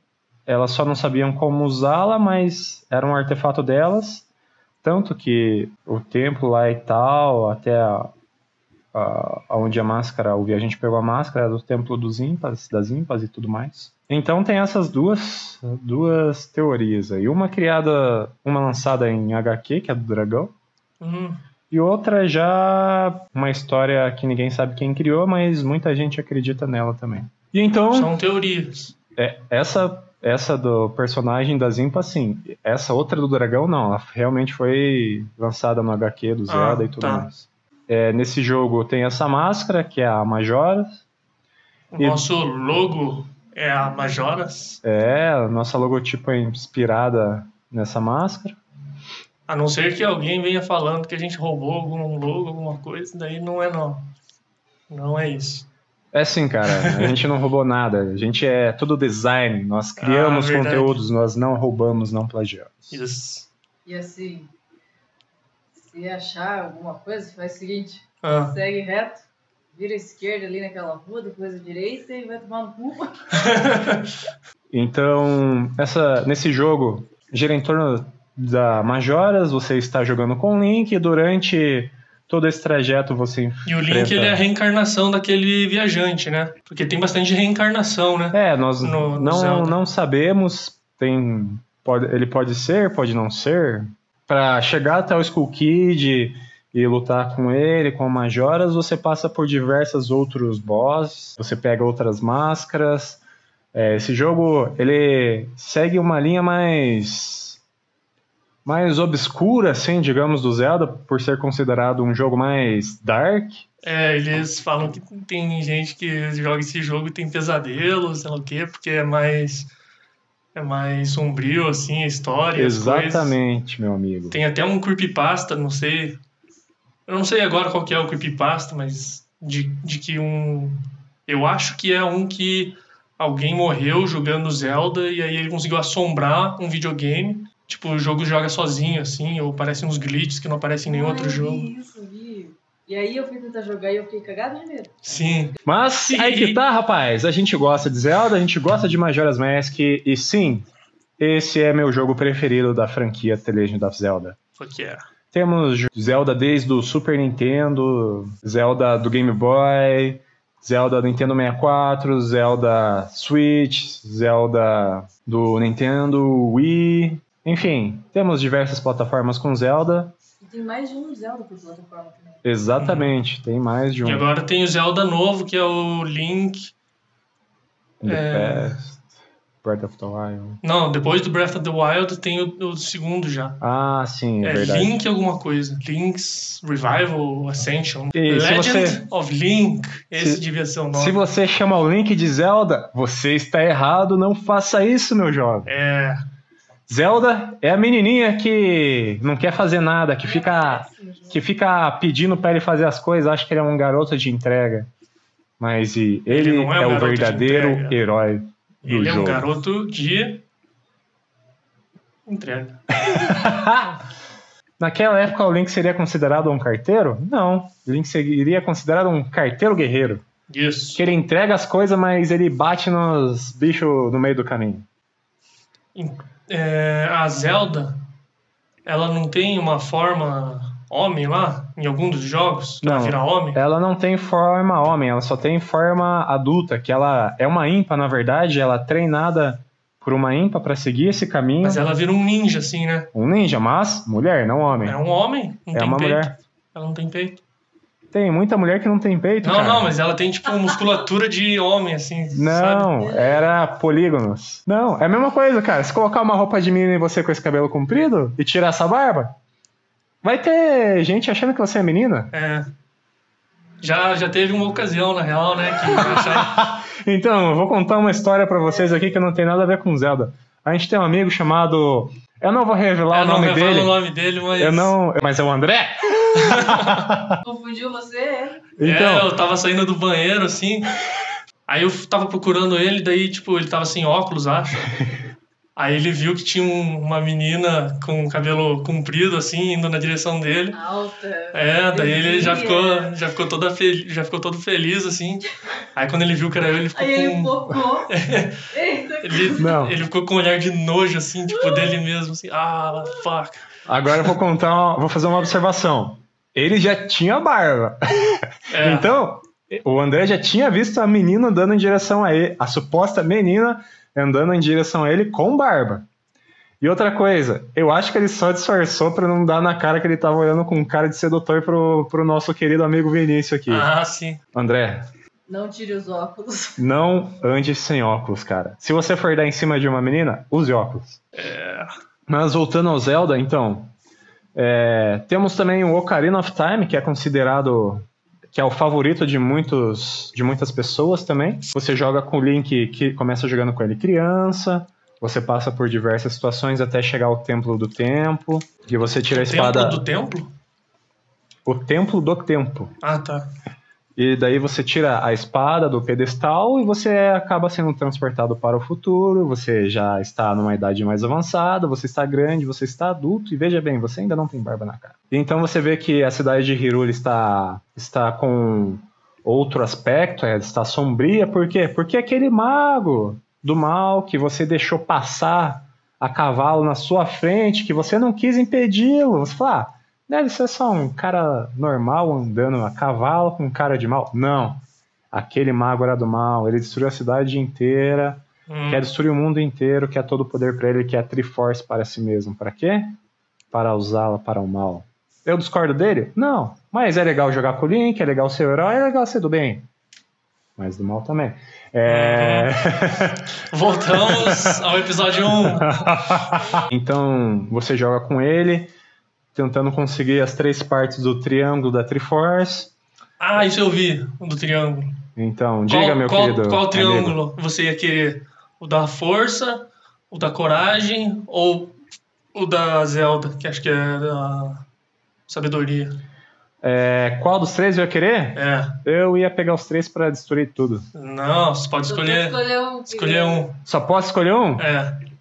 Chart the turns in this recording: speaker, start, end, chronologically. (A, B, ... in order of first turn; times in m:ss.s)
0:00.5-0:04.3 A
0:04.8-0:08.1 A
0:08.9-0:20.5 A
0:21.0-0:21.4 B
0:21.7-0:28.1 A
0:27.9-0:28.9 B
0:29.2-0:41.0 A
0:36.5-0:37.3 B
0:41.9-0:44.8 B
0:44.8-0:48.6 A
0:49.5-0:54.1 B
0:54.9-0:55.7 B
0:56.1-1:03.0 A
0:56.7-0:57.2 B
1:00.0-1:01.0 B
1:02.9-1:03.5 B
1:03.8-1:04.5 C
1:05.8-1:13.5 C
1:08.2-1:08.6 B
1:13.3-1:14.1 B
1:14.7-1:24.4 A
1:23.7-1:29.8 B
1:28.3-1:43.2 A
1:43.7-1:47.6 A
1:48.6-1:53.6 A
1:53.8-1:59.7 B
2:00.6-2:03.4 B
2:02.6-2:04.4 A
2:04.3-2:06.2 B
2:07.1-2:21.7 B
2:20.9-2:25.5 C
2:25.0-2:25.6 B
2:25.6-2:30.7 A
2:26.1-2:26.6 B
2:31.2-2:34.4 A
2:34.6-2:35.0 B
2:35.3-2:50.2 A
2:50.4-2:52.4 C
2:52.4-2:54.2 A
2:52.8-2:53.1 B
2:54.0-2:56.7 B
2:58.0-2:59.1 A
2:58.0-2:58.8 B
2:59.6-3:00.6 A
3:00.6-3:03.6 B
3:03.6-3:05.0 A
3:04.4-3:11.3 B
3:08.1-3:09.0 A
3:10.2-3:15.7 A
3:15.7-3:16.2 B
3:16.9-3:24.9 A
3:20.2-3:21.5 C
3:25.6-3:29.5 A
3:26.3-3:28.0 B
3:28.8-3:30.4 B
3:32.3-3:32.8 B
3:33.0-3:34.0 A
3:34.8-3:40.2 A
3:40.5-3:41.0 B
3:41.0-3:44.9 A
3:46.0-3:48.0 B
3:48.8-3:53.6 B
3:52.8-4:01.8 A
4:01.6-4:03.1 B
4:03.1-4:05.0 A
4:04.8-4:07.4 B
4:05.7-4:06.3 A
4:08.1-4:09.9 A
4:09.4-4:13.1 B
4:12.3-4:19.3 A
4:13.1-4:13.4 C
4:20.2-4:22.3 A
4:22.3-4:22.7 B
4:23.8-4:26.6 B
4:26.0-4:33.9 A
4:33.1-4:35.0 B
4:34.6-4:37.4 A
4:36.4-4:37.1 B
4:37.4-4:38.7 C
4:38.8-4:39.3 A
4:38.8-4:41.0 B
4:41.7-4:44.8 B
4:45.8-4:50.8 B
4:50.7-4:53.2 C
4:51.5-4:58.7 B
4:56.9-4:58.1 C
4:58.7-4:59.8 C
4:59.2-5:03.6 B
4:59.6-5:00.0 A
5:01.5-5:01.9 C
5:03.9-5:16.1 A
5:08.7-5:09.1 B
5:16.8-5:23.9 A
5:23.7-5:24.4 B
5:24.5-5:25.1 A
5:25.5-5:26.8 C
5:26.8-5:31.2 A
5:31.4-5:31.9 B
5:32.3-5:33.9 A
5:34.6-5:50.0 A
5:49.3-5:50.5 B
5:51.7-5:53.0 A
5:53.0-5:53.5 B
5:54.2-6:33.2 A
6:28.7-6:29.0 B
6:33.7-6:39.9 A
6:40.8-6:43.5 A
6:42.1-6:42.8 B
6:43.6-6:46.4 B
6:44.1-6:44.8 A
6:45.5-6:48.9 A
6:49.5-6:52.9 A
6:53.4-6:55.2 B
6:55.4-6:57.4 A
6:55.9-7:02.0 B
7:02.5-7:04.8 B
7:05.5-7:06.2 B
7:06.8-7:11.1 A
7:08.6-7:09.0 B
7:11.2-7:13.8 B
7:12.1-7:13.7 C
7:13.8-7:14.9 A
7:14.8-7:15.2 B